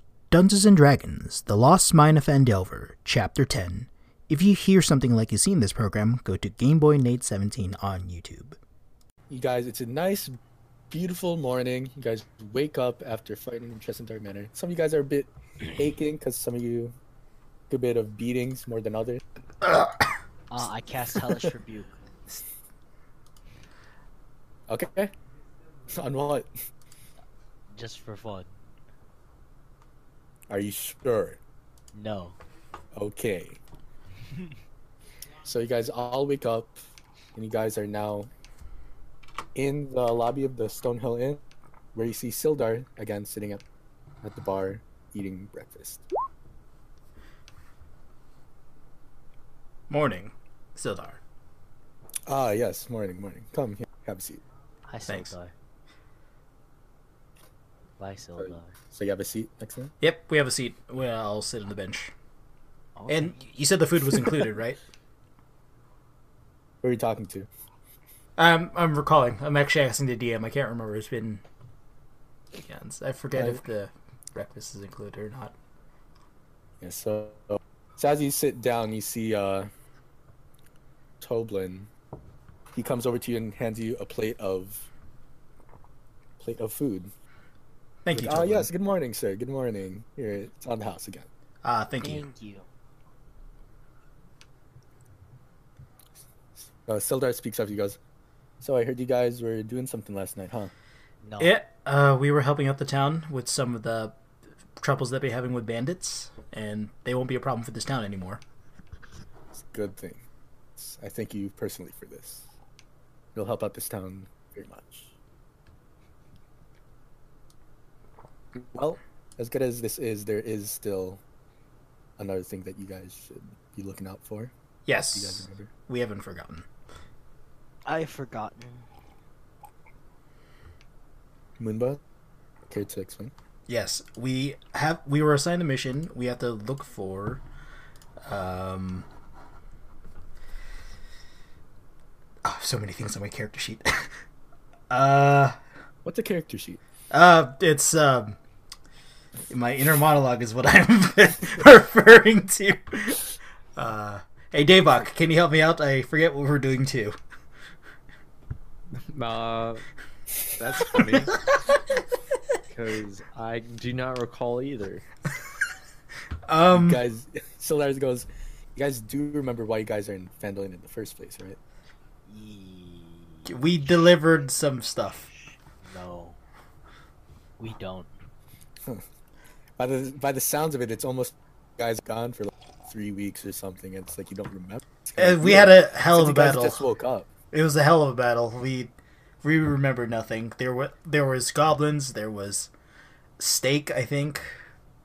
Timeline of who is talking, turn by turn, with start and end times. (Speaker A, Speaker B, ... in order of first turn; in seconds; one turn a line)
Speaker A: 0.3-8.6
Speaker B: 9.3-10.4
Speaker B: 10.9-17.0
Speaker B: 17.7-19.2
Speaker A: 19.6-20.1
Speaker C: 20.5-22.0
Speaker B: 24.7-25.1
Speaker B: 25.9-26.5
Speaker C: 27.7-28.5
Speaker B: 30.5-31.4
Speaker C: 31.9-32.4
Speaker B: 32.9-33.6
Speaker B: 35.4-36.8
Speaker B: 37.4-38.3
Speaker B: 39.5-41.4
Speaker B: 42.0-43.6
Speaker B: 44.2-46.0
Speaker A: 49.9-51.2
Speaker B: 52.3-54.4
Speaker C: 54.9-55.5
Speaker A: 55.1-55.4
Speaker C: 58.0-58.8
Speaker B: 58.4-59.9
Speaker A: 60.0-62.1
Speaker C: 63.0-63.4
Speaker A: 63.1-64.8
Speaker B: 66.8-67.5
Speaker A: 68.4-71.4
Speaker A: 72.6-75.5
Speaker B: 73.3-73.6
Speaker B: 76.8-79.7
Speaker B: 81.2-81.9
Speaker B: 82.7-84.9
Speaker B: 86.4-87.1
Speaker A: 88.0-88.7
Speaker B: 88.1-91.3
Speaker A: 91.6-92.3
Speaker C: 92.0-92.7
Speaker B: 96.8-98.0
Speaker B: 98.6-100.7
Speaker C: 101.2-101.5
Speaker A: 101.4-104.2
Speaker A: 104.8-108.4
Speaker B: 109.5-110.3
Speaker B: 110.8-112.5
Speaker B: 113.3-115.1
Speaker B: 118.5-121.2
Speaker B: 122.2-124.5
Speaker A: 124.9-126.7
Speaker B: 125.1-125.7
Speaker C: 127.8-128.9
Speaker B: 131.6-132.0
Speaker B: 132.7-133.3
Speaker A: 133.7-137.4
Speaker A: 138.2-139.1
Speaker A: 142.4-144.1
Speaker A: 144.9-145.6
Speaker B: 146.1-146.8
Speaker A: 147.1-148.4
Speaker A: 149.5-153.2
Speaker A: 153.8-157.2
Speaker D: 159.1-159.8
Speaker D: 160.5-161.4
Speaker D: 162.7-165.1
Speaker A: 166.5-167.0
Speaker B: 166.7-171.6
Speaker C: 172.3-174.2
Speaker A: 173.5-175.3
Speaker C: 175.8-176.4
Speaker C: 177.6-178.1
Speaker B: 179.8-187.3
Speaker A: 185.2-186.9
Speaker A: 187.5-188.9
Speaker A: 189.4-192.7
Speaker A: 193.4-194.5